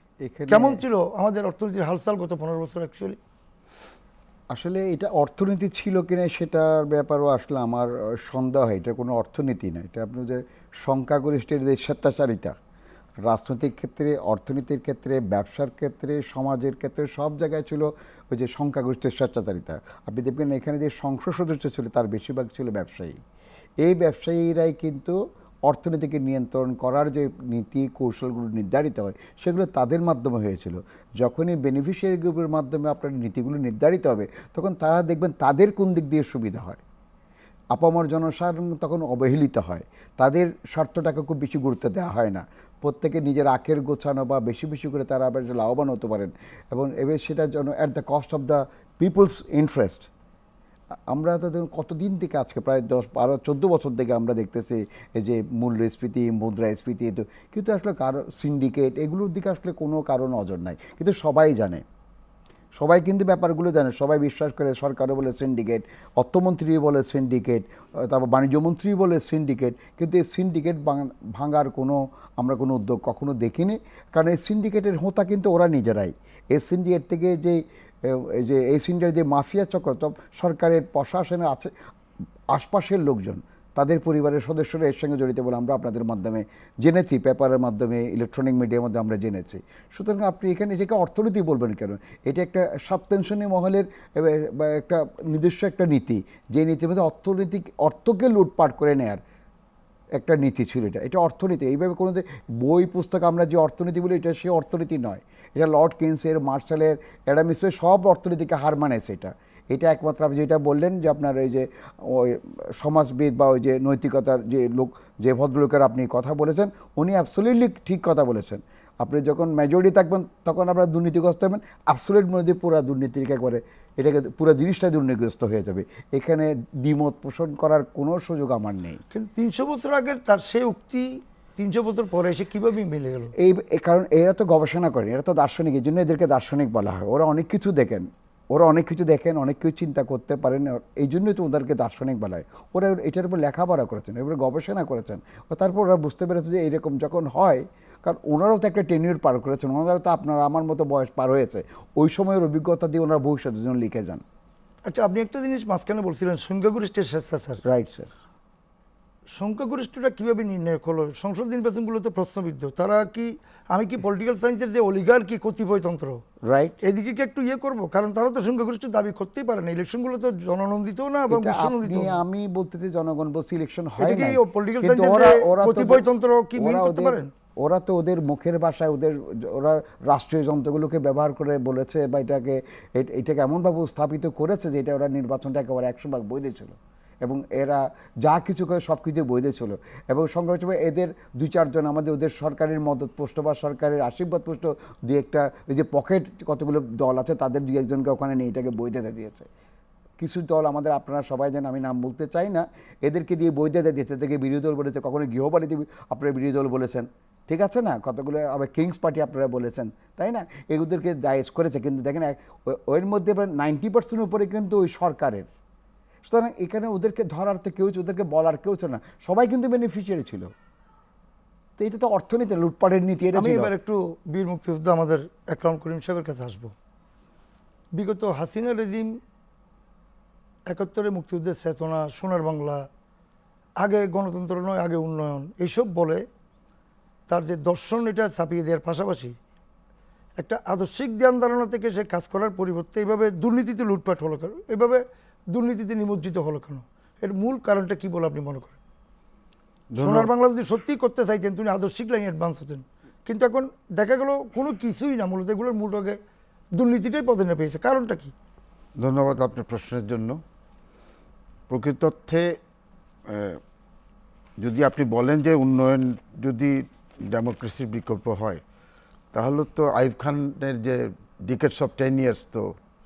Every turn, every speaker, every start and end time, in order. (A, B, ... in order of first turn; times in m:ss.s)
0:00.2-0:00.8 A
0:00.5-0:03.2 B
0:04.5-0:12.6 A
0:13.2-0:23.2 A
0:23.8-0:36.8 A
0:37.7-0:50.1 A
0:51.1-1:01.8 A
1:02.8-1:21.7 A
1:22.5-1:39.2 A
1:40.2-2:09.0 A
2:09.1-2:13.3 B
2:13.4-2:34.2 A
2:34.9-2:37.6 B
2:37.6-2:38.1 A
2:39.4-2:46.2 B
2:46.4-2:46.8 A
2:46.8-2:52.2 B
2:51.3-3:19.5 A
2:54.0-2:57.3 B
3:20.2-3:35.5 A
3:36.2-3:40.5 A
3:41.8-3:43.7 A
3:43.4-3:46.7 B
3:48.0-3:49.2 B
3:50.7-3:52.9 B
3:53.8-3:56.3 B
3:57.3-3:59.4 B
4:00.4-4:08.8 B
4:09.9-4:10.3 C
4:10.0-4:16.2 B
4:16.8-4:18.3 B
4:19.0-4:20.4 C
4:21.7-4:22.6 C
4:23.3-4:23.6 C
4:24.6-4:28.6 C
4:29.3-4:32.7 C